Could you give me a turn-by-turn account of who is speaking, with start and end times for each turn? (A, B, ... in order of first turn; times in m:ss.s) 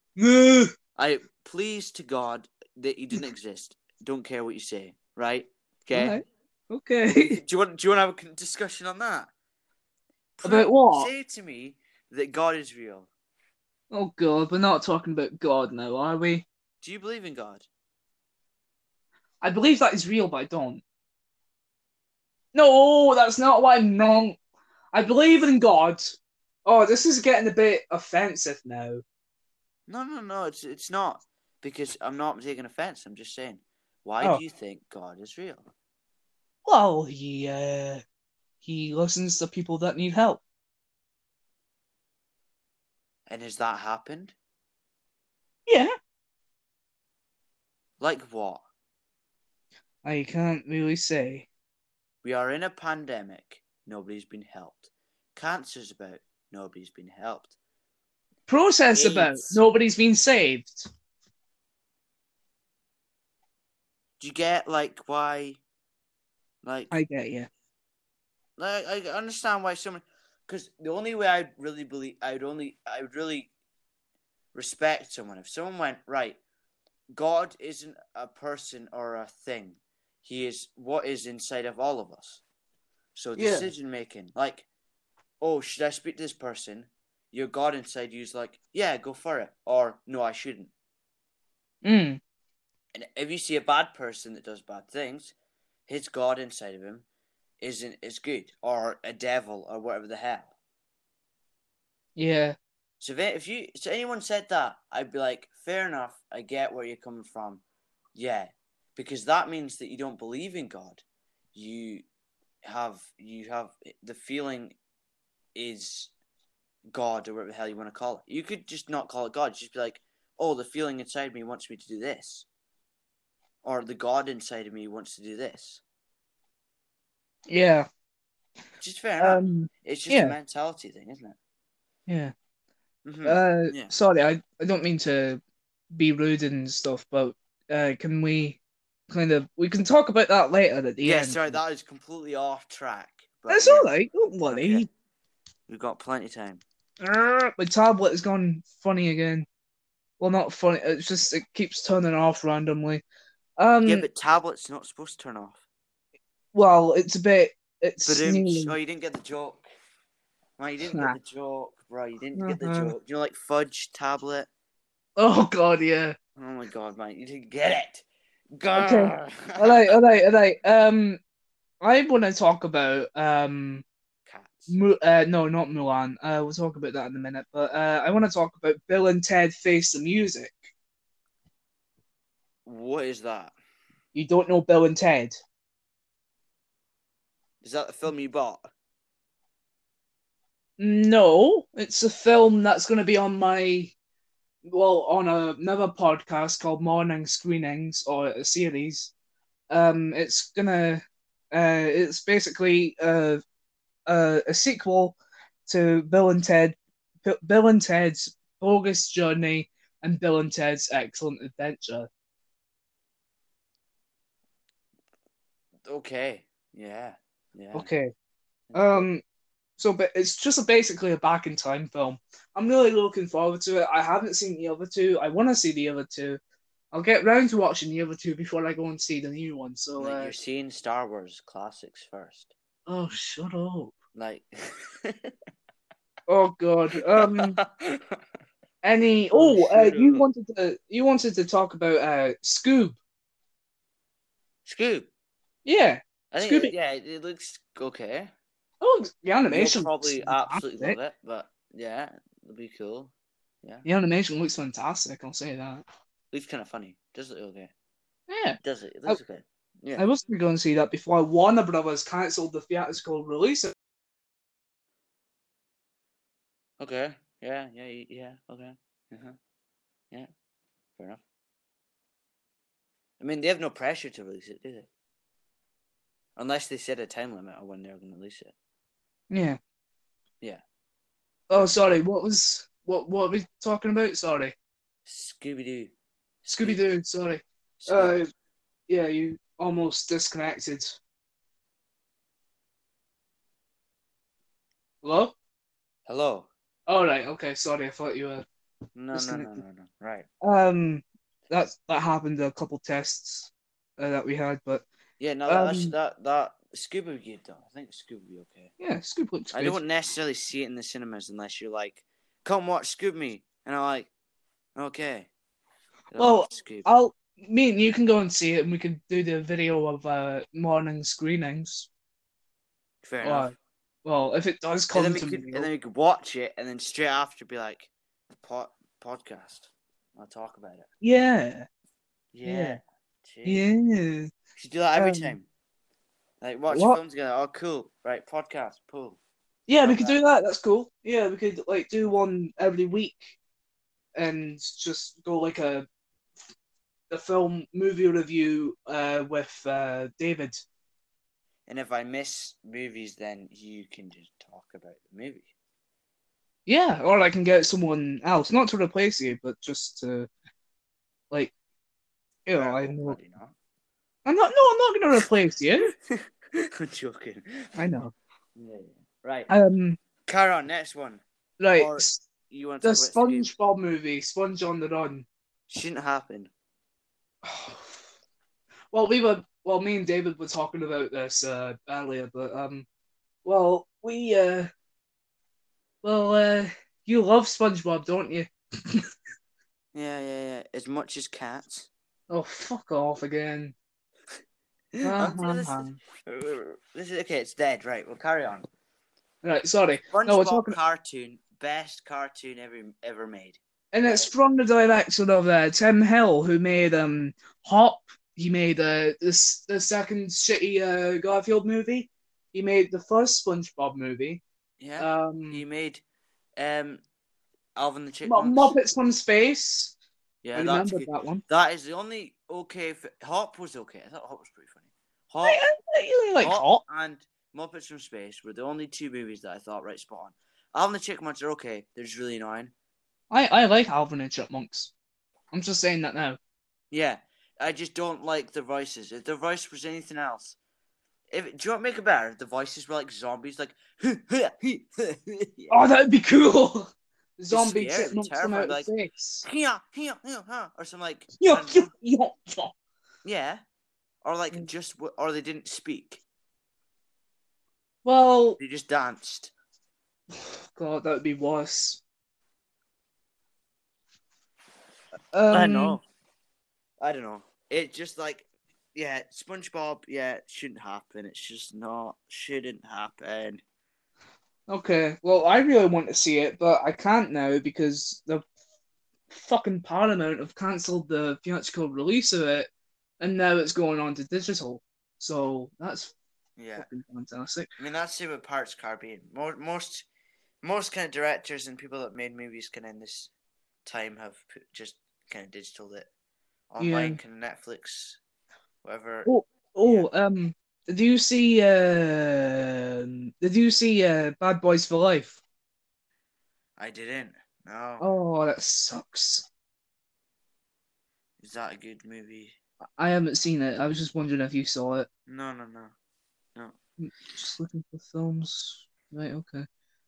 0:00.2-0:00.7 A
0:01.0-0:06.2 B
0:05.9-0:07.4 A
0:07.2-0:09.3 B
0:10.4-0:13.1 B
0:10.4-0:11.1 A
0:13.9-0:16.5 A
0:16.8-0:17.7 B
0:19.4-0:20.8 A
0:22.5-0:24.4 A
0:24.9-0:29.0 A
0:29.9-0:35.7 B
0:36.6-0:38.0 A
0:38.6-0:40.4 A
0:43.3-0:44.4 B
0:45.7-0:45.9 A
0:48.0-0:48.6 B
0:50.0-0:51.5 A
0:52.2-0:57.5 B
0:58.5-1:00.9 A
0:58.9-0:59.6 B
1:04.2-1:05.6 B
1:06.6-1:06.9 B
1:06.9-1:07.5 A
1:08.6-1:13.5 B
1:14.5-1:16.4 B
1:17.1-1:22.4 B
1:23.2-1:24.7 B
1:23.4-1:23.7 A
1:25.4-1:30.7 B
1:31.8-1:32.2 A
1:32.9-1:35.3 B
1:35.9-1:37.0 B
1:37.6-1:40.5 B
1:42.2-1:42.6 A
1:43.0-1:47.6 B
1:48.2-1:51.0 B
1:51.6-1:52.0 B
1:52.6-1:54.8 B
1:55.6-1:56.1 B
1:56.9-2:02.5 B
2:03.6-2:05.8 B
2:07.5-2:07.9 A
2:08.8-2:11.4 B
2:09.2-2:10.3 A
2:12.1-2:12.3 A
2:13.0-2:13.9 B
2:13.2-2:15.4 A
2:15.9-2:18.6 A
2:19.1-2:21.6 A
2:21.0-2:24.9 B
2:23.5-2:24.9 A
2:25.7-2:26.6 B
2:27.0-2:29.5 A
2:30.2-2:33.0 A
2:33.6-2:34.1 A
2:33.8-2:35.6 B
2:36.5-2:38.8 A
2:38.0-2:39.7 B
2:40.6-2:44.5 B
2:40.9-2:41.2 A
2:42.4-2:42.9 A
2:45.2-2:46.2 A
2:46.4-2:48.0 B
2:48.6-2:49.9 B
2:48.7-2:51.2 A
2:51.8-2:53.8 A
2:54.3-2:54.7 B
2:54.7-3:00.7 A
3:02.6-3:03.5 B
3:04.1-3:05.4 A
3:07.6-3:08.7 B
3:10.8-3:13.9 A
3:14.7-3:19.1 A
3:19.7-3:23.4 A
3:24.1-3:32.1 A
3:35.8-3:37.9 B
3:37.7-3:38.1 A
3:38.7-3:39.1 B
3:38.7-3:39.2 A
3:39.8-3:46.4 A
3:46.9-3:50.3 A
3:50.0-3:52.5 B
3:52.9-3:53.9 A
3:54.2-3:55.3 B
3:56.3-3:57.6 A
3:57.2-3:58.2 B
3:58.8-4:03.0 A
3:59.3-4:00.3 B
4:04.6-4:05.1 B
4:05.6-4:06.7 A
4:06.3-4:08.3 B
4:08.8-4:11.0 A
4:09.5-4:13.1 B
4:13.8-4:15.8 A
4:16.3-4:17.7 B
4:18.3-4:19.2 A
4:18.6-4:20.0 B
4:20.0-4:23.7 A
4:26.8-4:29.4 B
4:33.2-4:34.9 B
4:36.4-4:38.5 B
4:39.3-4:39.6 A
4:41.5-4:44.5 A
4:41.5-4:42.0 B
4:45.1-4:45.9 B
4:46.5-4:48.3 A
4:47.8-4:48.2 B
4:48.9-4:51.0 A
4:55.0-4:55.4 A
4:56.1-4:56.5 B
4:56.9-4:58.4 A
4:59.0-5:00.3 B
4:59.1-4:59.6 A
5:00.4-5:04.8 A
5:05.2-5:08.7 B
5:05.5-5:05.9 A
5:08.8-5:09.8 A
5:09.5-5:14.1 B
5:14.8-5:15.3 B
5:16.1-5:16.9 B
5:16.2-5:21.9 A
5:23.0-5:23.5 B
5:23.2-5:25.7 A
5:24.9-5:27.9 B
5:28.4-5:30.9 B
5:31.0-5:31.7 A
5:32.3-5:33.7 B
5:32.4-5:32.8 A
5:33.4-5:34.3 A
5:34.6-5:35.5 B
5:35.0-5:35.4 A
5:36.4-5:39.2 B
5:36.7-5:37.0 A
5:39.7-5:43.4 A
5:39.8-5:40.2 B
5:44.2-5:45.9 A
5:47.1-5:50.6 A
5:51.7-5:55.5 B
5:56.7-6:00.3 A
6:02.5-6:03.2 A
6:02.6-6:03.6 B
6:04.3-6:05.9 A
6:05.9-6:07.8 B
6:07.8-6:08.1 A
6:08.6-6:09.5 B
6:09.5-6:10.0 A
6:10.3-6:11.2 B
6:11.6-6:12.2 A
6:11.8-6:13.5 B
6:12.8-6:15.3 A
6:15.7-6:16.5 B
6:17.4-6:18.0 A
6:18.9-6:22.9 A
6:23.4-6:24.7 A
6:26.0-6:29.1 A
6:29.9-6:31.9 B
6:32.3-6:33.8 A
6:35.0-6:38.7 B
6:35.0-6:36.0 A
6:39.4-6:40.8 A
6:40.1-6:44.3 B
6:43.9-6:54.4 A
6:54.8-6:56.0 B
6:55.0-6:55.6 A
6:56.6-6:57.0 B
6:57.8-6:58.8 B
6:58.2-6:59.9 A
7:00.4-7:05.6 B
7:00.5-7:01.4 A
7:05.4-7:06.8 A
7:06.4-7:12.7 B
7:13.3-7:14.9 A
7:15.5-7:16.4 A
7:16.9-7:20.6 B
7:21.3-7:25.8 B
7:25.7-7:29.5 A
7:27.5-7:28.9 B
7:29.4-7:31.9 B
7:31.4-7:32.7 A
7:33.2-7:33.6 B
7:34.2-7:36.2 B
7:38.0-7:38.6 A
7:38.6-7:39.5 B
7:40.4-7:42.0 A
7:45.3-7:46.0 A
7:45.5-7:46.0 B
7:47.0-7:53.6 B
7:54.7-7:58.4 A
7:59.3-8:02.7 A
8:03.2-8:06.1 A
8:06.6-8:06.9 B
8:06.8-8:07.7 A
8:07.8-8:10.1 B
8:10.6-8:13.3 B
8:13.8-8:16.1 B
8:16.7-8:18.2 B
8:16.8-8:17.2 A
8:18.8-8:19.3 B
8:19.2-8:25.4 A
8:26.8-8:28.1 B
8:28.0-8:29.5 A
8:31.4-8:32.6 B
8:33.0-8:35.1 A
8:35.3-8:35.9 B
8:37.0-8:39.7 A